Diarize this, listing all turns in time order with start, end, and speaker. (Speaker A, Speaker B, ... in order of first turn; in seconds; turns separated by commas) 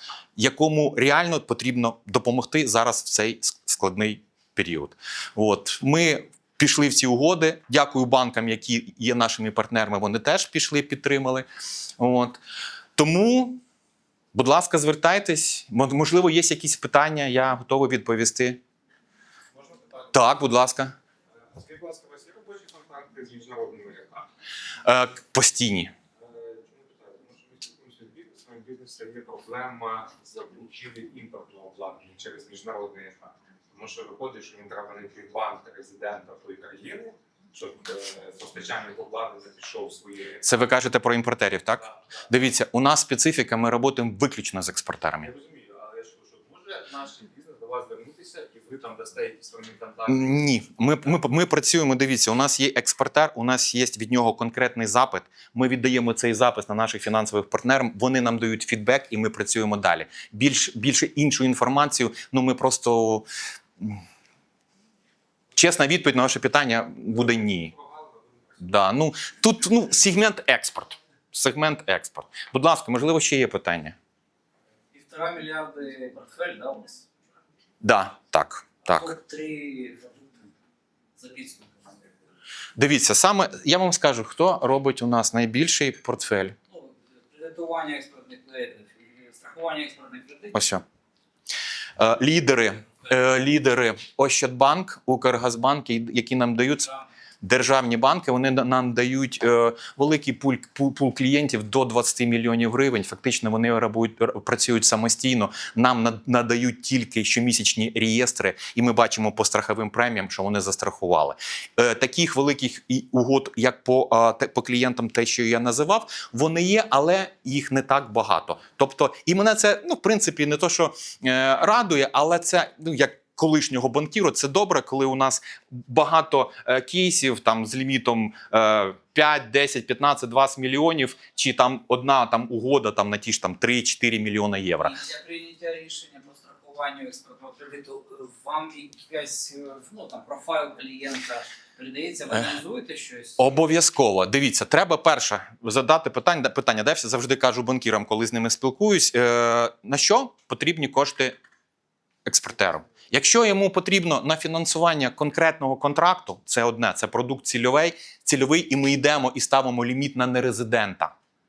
Speaker A: 0.4-11.4, Speaker A: 12.0-12.4, Speaker A: 12.9-13.6, Speaker A: 14.3-18.6, Speaker B: 19.5-20.1, Speaker A: 20.1-20.9, Speaker B: 21.4-24.3, Speaker A: 24.8-25.9, Speaker B: 26.2-40.5, Speaker A: 40.4-45.3, Speaker B: 45.2-50.4, Speaker A: 50.1-63.2, Speaker A: 65.5-67.7, Speaker B: 67.5-68.6, Speaker A: 68.6-74.0, Speaker C: 74.9-77.1, Speaker A: 77.8-79.2, Speaker C: 78.9-80.5, Speaker C: 81.2-82.0, Speaker A: 82.8-86.5, Speaker C: 86.7-90.5, Speaker A: 90.5-90.8, Speaker A: 92.0-96.9, Speaker A: 97.4-135.0, Speaker C: 134.8-143.5, Speaker A: 143.4-151.4, Speaker A: 152.2-161.1